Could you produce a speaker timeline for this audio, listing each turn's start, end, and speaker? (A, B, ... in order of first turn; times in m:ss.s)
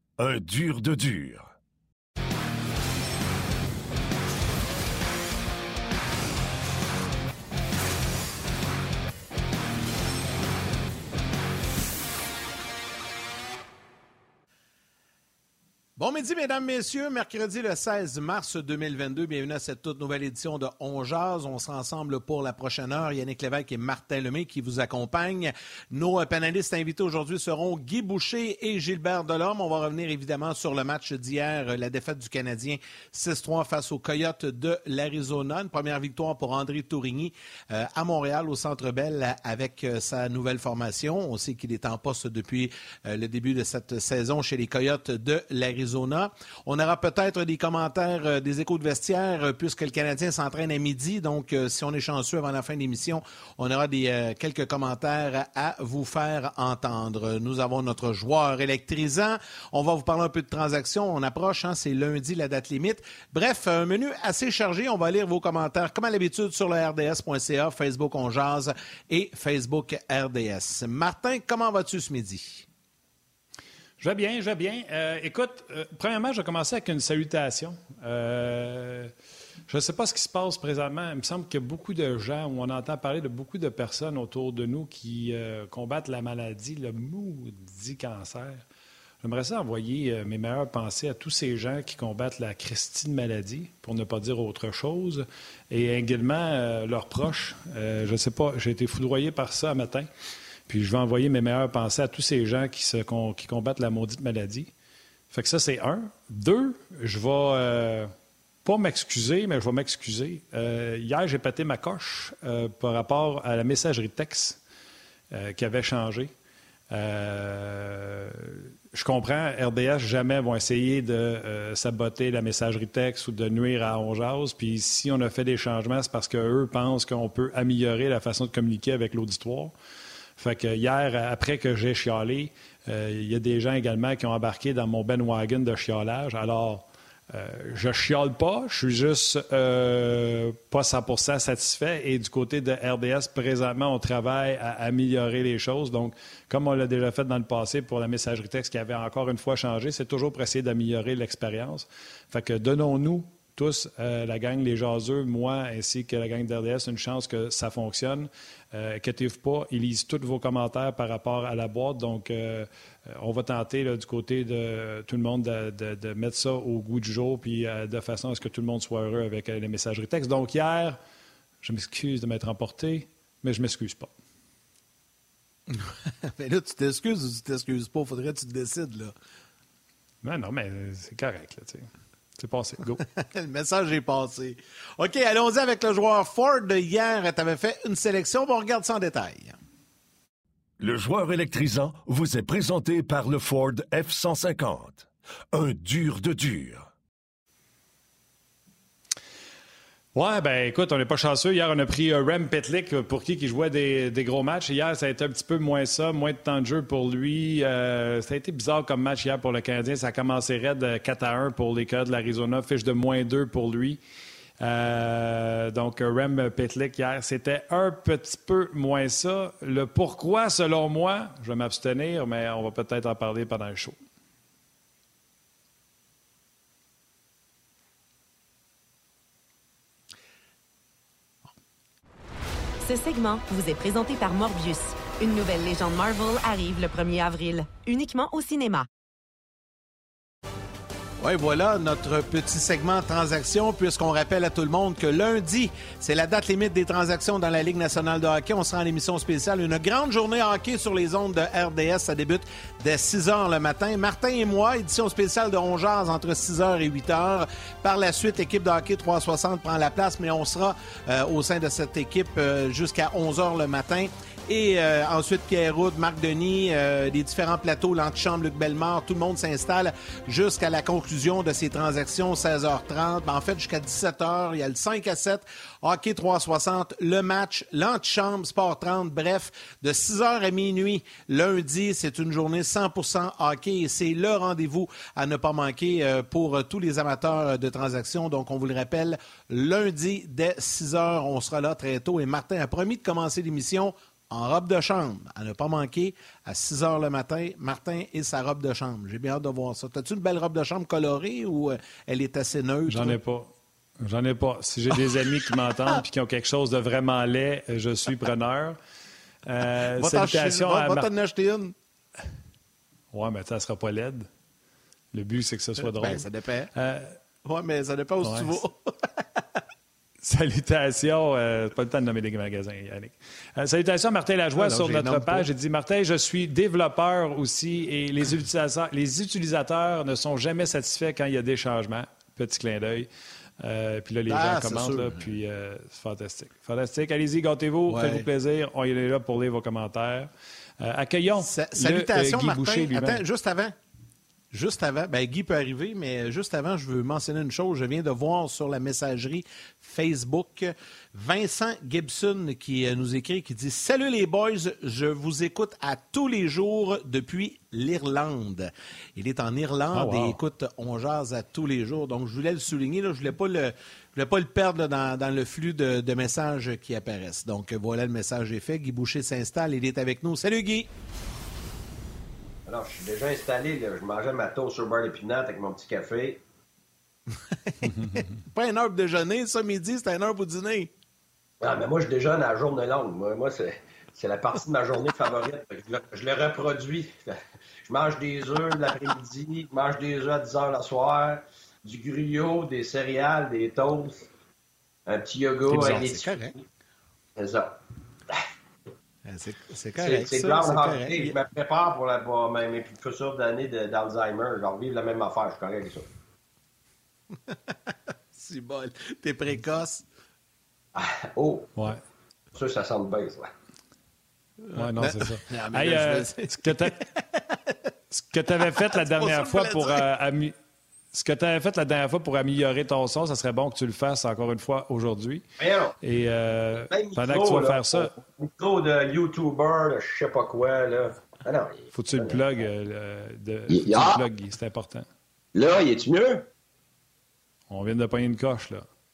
0:00.2-0:01.5 A
0:16.0-1:12.7 B
1:14.0-1:19.1 C
1:19.7-1:28.6 C
1:29.2-1:40.1 C
1:40.7-1:44.7 C
1:45.3-1:48.1 C
1:48.6-1:54.6 C
1:55.3-1:56.3 C
1:56.9-2:09.7 C
2:10.4-2:51.0 C
2:51.6-2:54.1 C
2:55.7-2:59.1 B
3:00.2-3:03.0 C
3:03.2-3:09.6 B
3:10.8-3:16.9 A
3:20.2-3:34.0 C
3:34.6-3:44.0 C
3:52.8-3:58.9 D
4:01.2-5:03.2 B
5:02.9-5:08.8 C
5:09.5-5:11.1 C
5:10.0-5:11.8 B
5:13.1-5:14.3 C
5:15.1-5:17.2 C
5:15.8-5:16.7 B
5:17.4-5:19.4 B
5:18.2-5:18.6 C
5:20.2-5:33.1 C
5:24.6-5:25.5 B
5:33.6-5:43.2 C
5:34.3-5:35.3 B
5:37.9-5:38.3 B
5:41.4-5:43.8 B
5:44.5-6:10.9 B
5:59.9-6:00.4 C
6:12.7-6:16.4 E
6:17.6-6:20.9 B
6:21.6-6:34.3 E
6:35.1-6:36.6 E
6:35.7-6:36.5 B
6:37.4-6:38.4 E
6:39.3-6:41.4 B
6:40.0-6:46.1 E
6:47.5-6:50.0 B
6:51.0-6:51.8 E
6:52.5-6:53.5 E
6:54.6-6:57.9 B
6:54.8-6:57.0 C
6:58.1-7:00.5 C
6:58.6-7:00.0 B
7:01.1-7:05.4 C
7:05.6-7:06.0 E
7:06.0-7:08.1 C
7:06.9-7:12.6 E
7:11.9-7:15.1 C
7:13.7-7:14.2 E
7:15.5-7:16.5 E
7:17.7-7:18.9 C